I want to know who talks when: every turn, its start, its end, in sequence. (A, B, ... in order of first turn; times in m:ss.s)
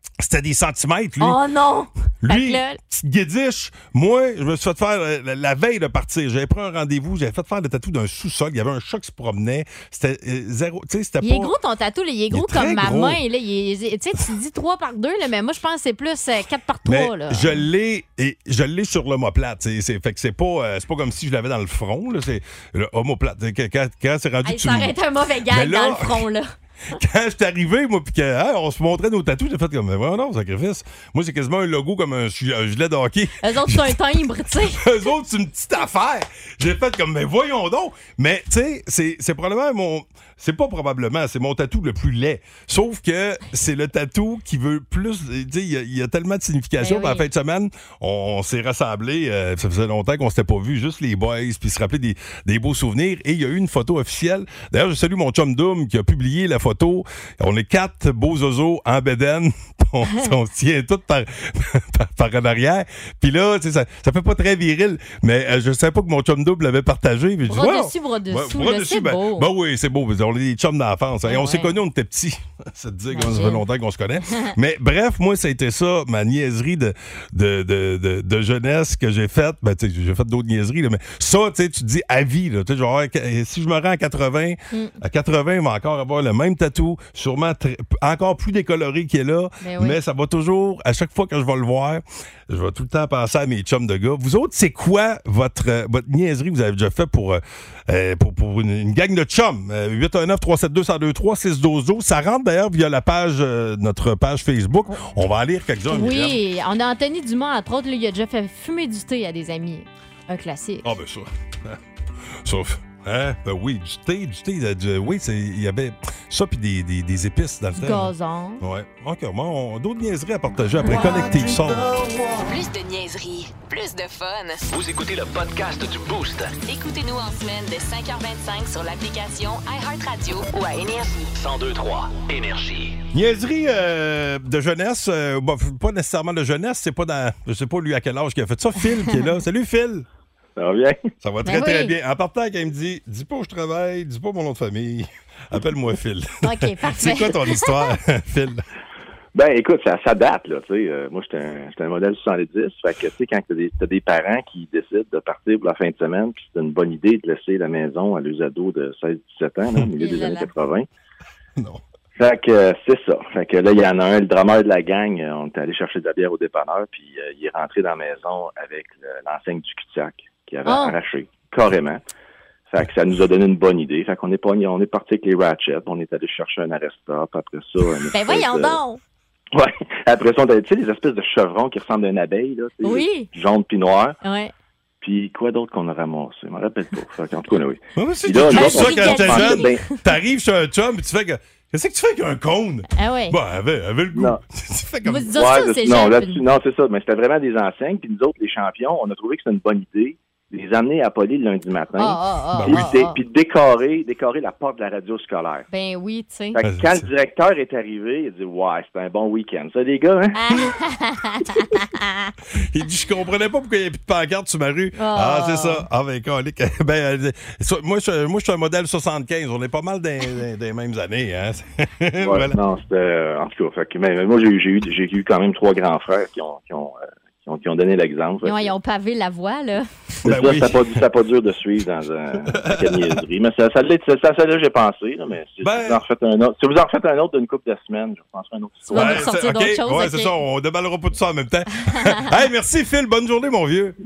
0:00.2-0:01.4 A
0:01.2-0:02.8 B
0:02.2-0:11.5 A
0:11.2-0:17.7 B
0:12.3-0:13.2 A
0:16.9-0:25.0 A
0:24.4-0:26.5 B
0:25.5-0:26.3 A
0:27.0-0:34.0 A
0:33.4-0:34.8 B
0:34.7-1:46.4 A
0:46.8-0:47.3 B
1:07.5-1:09.5 B
1:11.3-1:11.7 B
1:13.1-1:13.6 B
1:24.7-1:25.0 B
1:29.6-1:30.0 B
1:45.9-1:50.9 B
1:50.8-1:51.8 A
1:52.4-2:02.0 A
1:57.8-1:58.6 B
2:02.4-2:04.6 C
2:04.7-2:06.6 D
2:06.6-2:11.3 C
2:11.4-2:13.0 D
2:13.1-2:20.0 A
2:20.6-2:21.1 E
2:21.2-2:28.6 A
2:21.4-2:21.9 B
2:26.4-2:27.9 B
2:29.4-2:40.9 E
2:40.0-2:40.5 B
2:42.2-2:52.0 E
2:50.6-2:51.0 B
2:52.7-2:58.8 E
2:58.1-2:59.0 B
2:59.5-3:04.2 E
3:02.8-3:03.3 B
3:04.2-3:04.5 B
3:05.0-3:10.0 E
3:08.0-3:15.3 A
3:08.5-3:09.9 B
3:13.0-3:13.4 B
3:14.2-3:14.4 E
3:15.1-3:16.4 B
3:15.3-3:25.7 E
3:22.0-3:23.2 B
3:22.6-3:23.0 A
3:25.7-3:26.6 B
3:26.6-3:30.4 E
3:26.6-3:27.0 A
3:30.3-3:32.3 B
3:32.6-3:42.6 A
3:35.0-3:35.8 B
3:42.2-3:48.7 E
3:48.4-3:49.9 B
3:50.2-3:51.0 A
3:50.3-3:59.3 E
3:52.5-3:53.2 A
3:55.6-3:56.0 A
3:58.9-4:00.3 B
3:58.9-4:03.9 A